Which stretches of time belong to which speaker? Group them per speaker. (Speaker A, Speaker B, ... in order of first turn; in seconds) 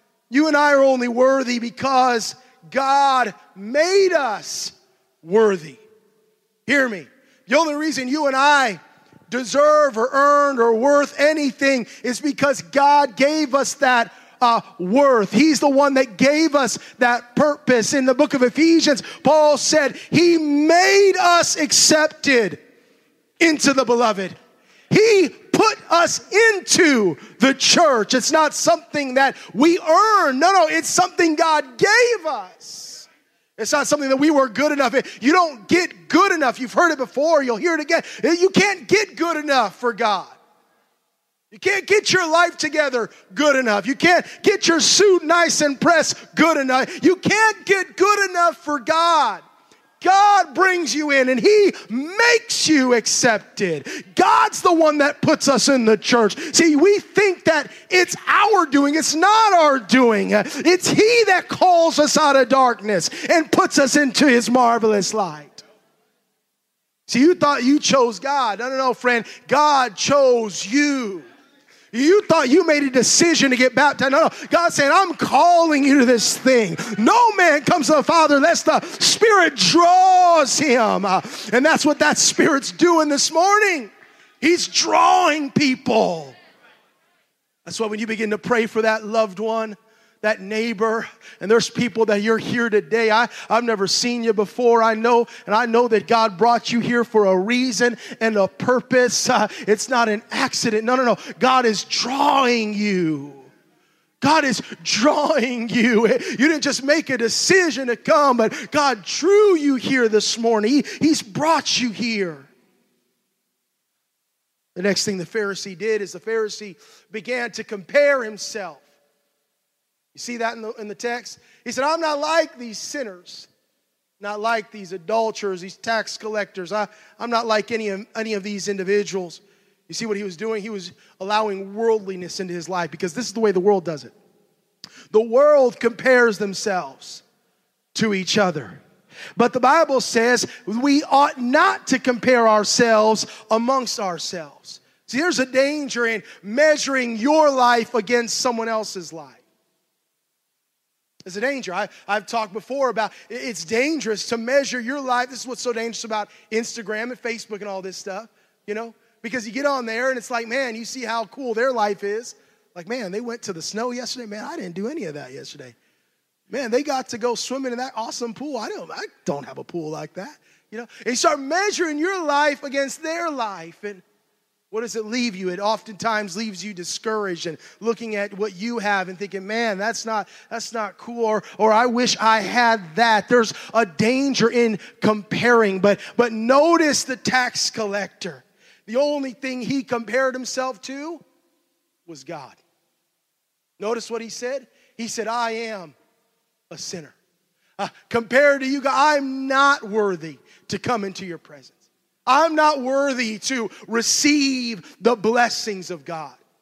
Speaker A: 0.3-5.8, 6.7-22.6, 23.4-24.4, 24.9-40.4, 41.5-49.4, 50.0-65.6, 67.1-71.3, 71.9-86.3, 87.7-103.5, 104.2-112.5, 114.8-118.9, 120.1-123.5, 124.2-134.2, 135.1-137.2, 137.9-138.8, 139.4-149.4, 151.3-165.8, 166.5-174.0, 174.7-191.2, 192.1-192.6, 193.8-195.9, 196.7-197.2, 197.8-206.4